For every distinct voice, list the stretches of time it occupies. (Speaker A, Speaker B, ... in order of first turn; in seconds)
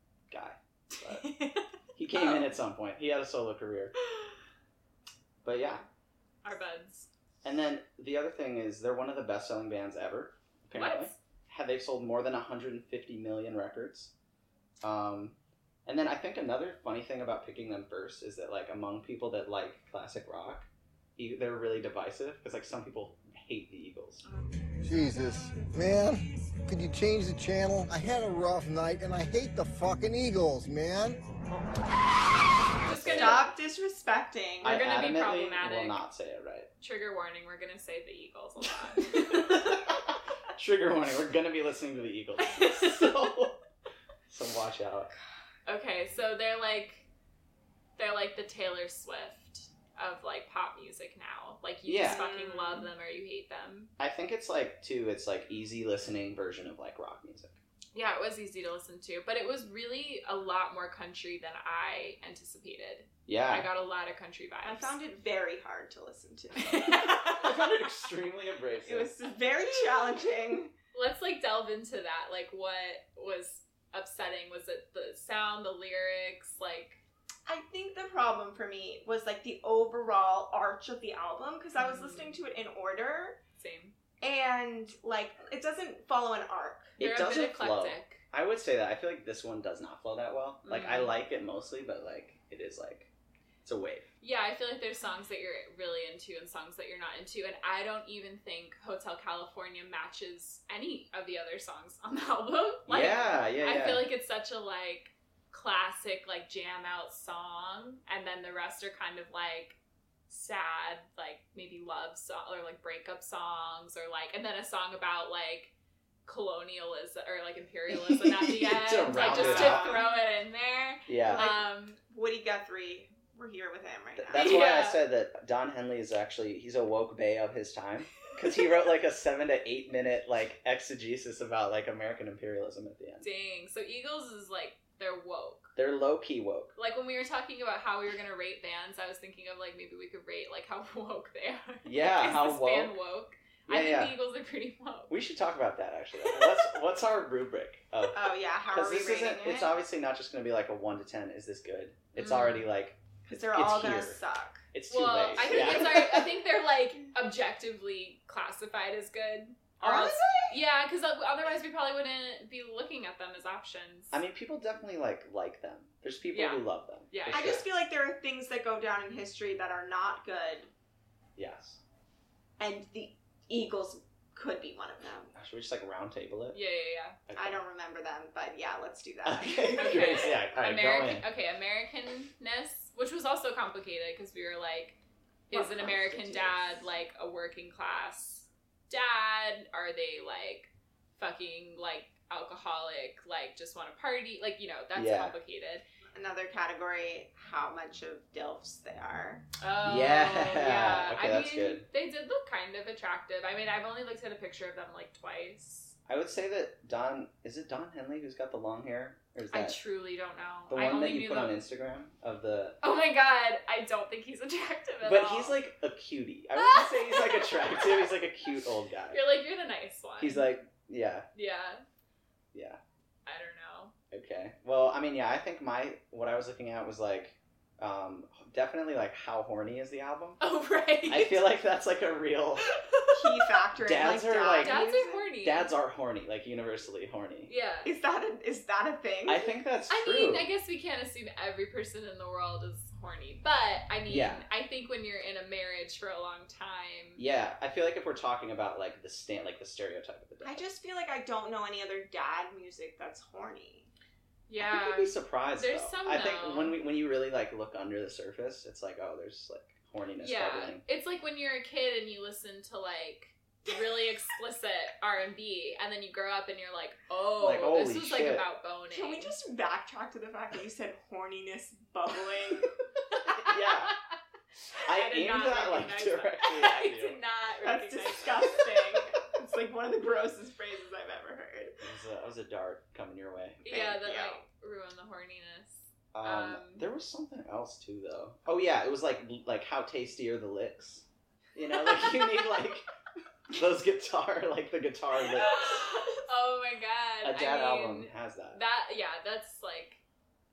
Speaker A: 0.3-1.3, 2.0-3.9, 5.4-5.8, 7.4-14.1, 14.8-24.2, 32.8-33.5, 34.6-36.7, 39.2-43.6, 44.3-45.1, 51.9-52.2, 54.0-57.6, 63.3-63.7, 67.4-69.1, 87.0-93.1, 93.6-94.1, 102.9-104.1, 117.9-120.0, 121.1-121.5, 124.2-133.3, 135.8-136.7, 141.8-142.9, 143.7-144.2, 145.1-154.2, 154.7-156.2, 164.1-167.7, 171.4-171.8, 175.3-176.6, 177.3-177.6, 179.2-181.3, 185.5-186.6, 194.9-195.3, 199.8-201.9, 206.1-209.8, 210.7-212.8, 215.0-219.2, 220.2-221.3, 222.5-222.8, 224.1-230.4, 231.1-232.7, 233.8-234.8, 235.4-237.5, 239.3-240.5, 244.1-244.4, 247.2-250.6, 254.6-260.8, 267.4-268.4, 273.2-273.9, 274.8-277.2, 281.8-283.6, 286.1-292.9, 293.5-296.1, 297.2-298.6
Speaker B: 0.9-2.6, 6.4-7.1, 10.7-11.2, 24.2-25.0, 32.8-33.5, 34.6-36.0, 36.8-39.9, 42.4-43.3, 45.7-47.1, 48.0-53.9, 57.9-65.0, 66.6-67.7, 70.9-77.0, 81.8-82.4, 83.6-84.0, 87.0-88.2, 90.7-91.1, 94.2-109.8, 110.3-115.7, 116.2-122.0, 124.3-125.1, 133.2-135.7, 136.8-145.2, 146.2-146.8, 152.2-152.7, 154.9-164.2, 166.3-167.7, 176.5-177.2, 179.8-185.0, 185.5-195.8, 199.6-206.0, 209.5-211.6, 212.8-215.6, 216.6-218.1, 219.1-220.5, 221.3-221.8, 223.3-223.9, 230.4-231.5, 232.7-233.5, 234.5-235.7, 237.5-237.9, 239.9-247.2, 254.5-256.8, 260.2-269.3, 273.1-274.0, 274.7-279.1, 283.6-286.9, 291.7-292.6, 295.2-300.0
Speaker C: 24.8-31.2
Speaker D: 33.1-34.8, 52.0-52.9, 64.6-67.4, 68.8-70.7, 77.5-83.4, 84.2-87.0, 119.1-120.1, 121.2-124.5, 148.1-149.7, 153.2-154.6, 155.4-156.2, 159.8-160.6, 167.3-170.7, 172.6-175.3, 177.3-180.1, 196.1-199.4, 233.1-235.3, 237.8-239.5, 250.4-253.9, 268.9-272.7, 277.6-281.8, 283.7-284.4